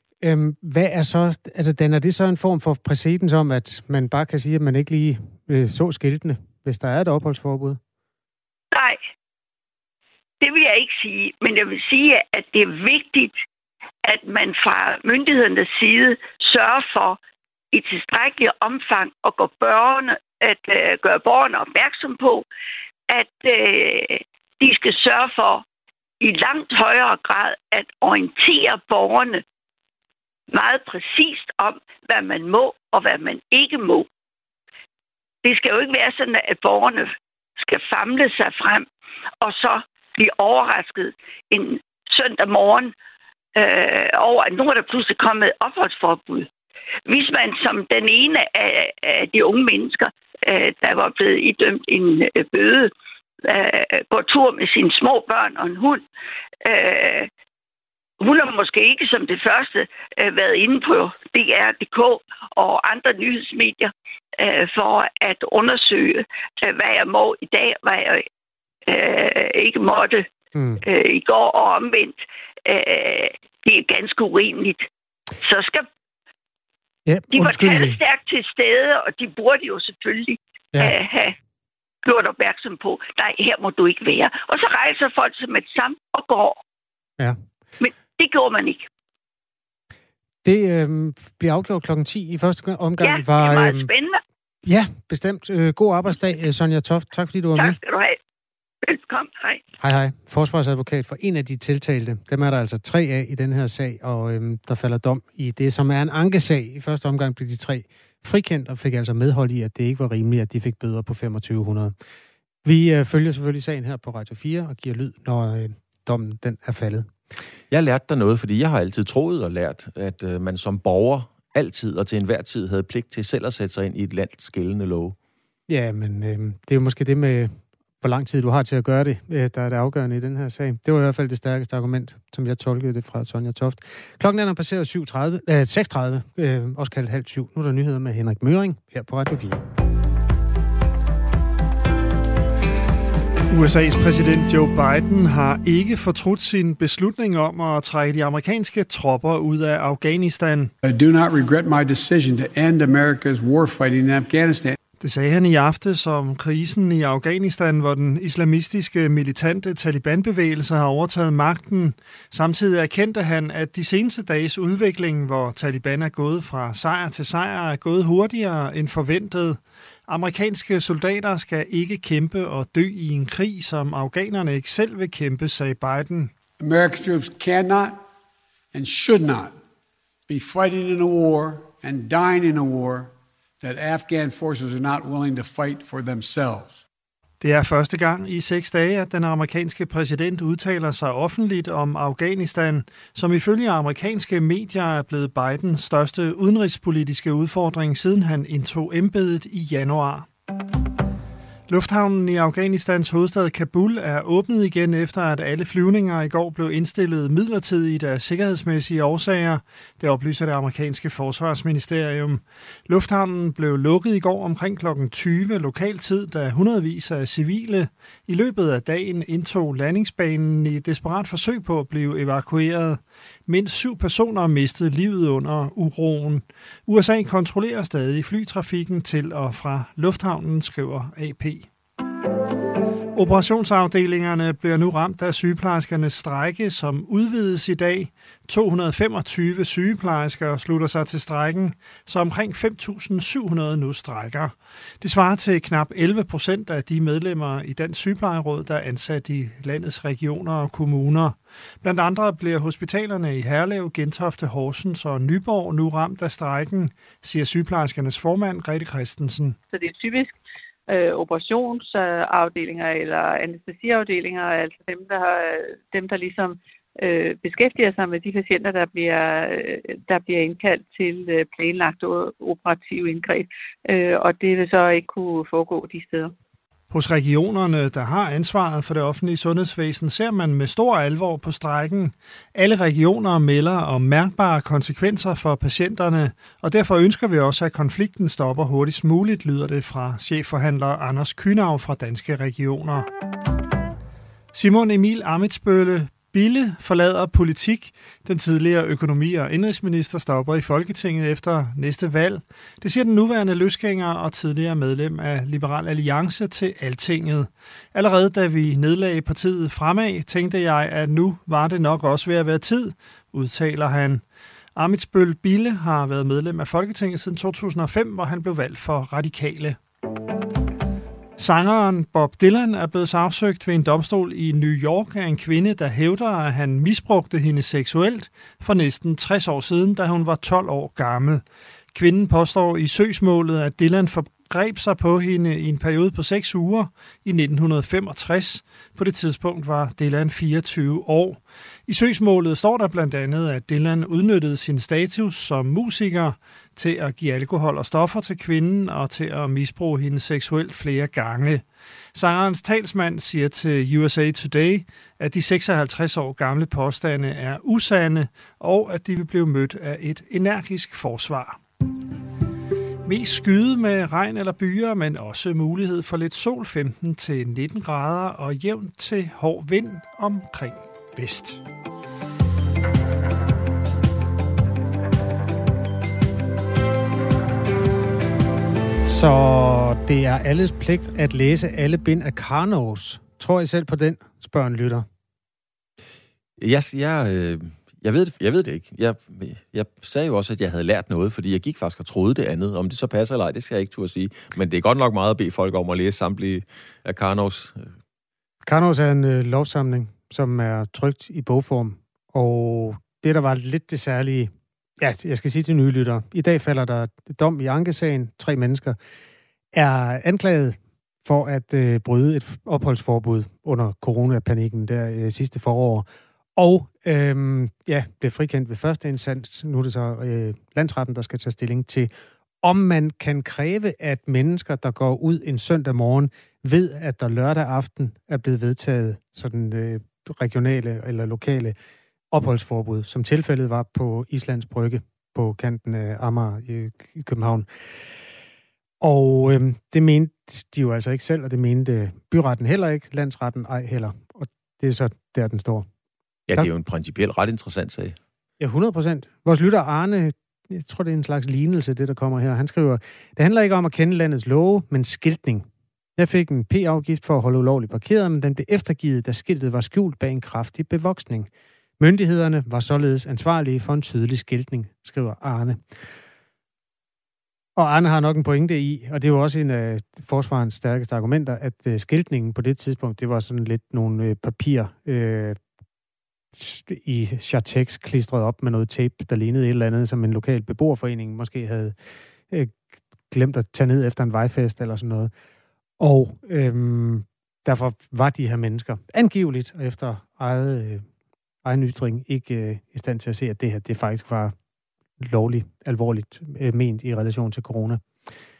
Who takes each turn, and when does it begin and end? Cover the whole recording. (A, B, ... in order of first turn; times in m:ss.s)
0:00.2-0:07.8 A
0:08.7-0:09.0 B
0:10.4-0:13.3 B
0:14.0-0:17.2 B
0:17.7-0:22.5 B
0:23.1-0:25.6 B
0:26.2-0:29.4 B
0:30.5-0:34.1 B
0:35.4-0:38.9 B
0:39.4-0:42.9 B
0:43.6-0:46.5 B
0:47.1-0:52.9 B
0:53.4-0:56.0 B
0:56.6-0:57.3 B
0:58.2-1:08.2 B
1:08.9-1:10.3 B
1:10.6-1:10.8 A
1:10.8-1:14.9 B
1:15.4-1:15.9 B
1:17.1-1:18.0 A
1:17.3-1:21.4 B
1:22.0-1:26.6 B
1:27.8-1:28.9 B
1:30.4-1:33.9 A
1:33.0-1:34.2 B
1:34.7-1:37.8 A
1:37.6-1:38.2 B
1:38.8-1:39.6 B
1:39.8-1:51.9 A
1:52.6-1:57.1 A
1:57.7-2:05.2 C
2:05.7-2:19.6 A
2:23.5-2:30.7 D
2:30.8-2:34.8 E
2:35.0-2:56.3 D
2:56.6-2:58.0 E
2:58.7-2:59.6 E
3:00.3-3:06.8 E
3:07.4-3:20.3 D
3:21.7-3:51.7 D
3:53.2-4:19.6 D
4:19.7-4:20.4 F
4:20.9-4:36.3 F
4:36.9-4:53.1 D
4:54.5-5:14.2 D
5:14.8-5:19.8 D
5:21.4-6:01.6 D
6:03.0-6:11.6 D
6:19.0-6:25.1 A
6:26.6-6:37.9 C
6:38.6-6:49.0 A
6:49.7-7:02.1 A
7:02.6-7:11.8 A
7:12.3-7:17.7 A
7:19.0-7:25.9 A
7:26.5-7:28.2 C
7:28.6-7:45.8 A
7:47.8-7:55.6 A
7:56.5-8:02.0 A
8:02.5-8:02.8 A
8:03.3-8:05.3 A
8:06.0-8:11.1 A
8:11.6-8:14.6 A
8:15.2-8:18.0 A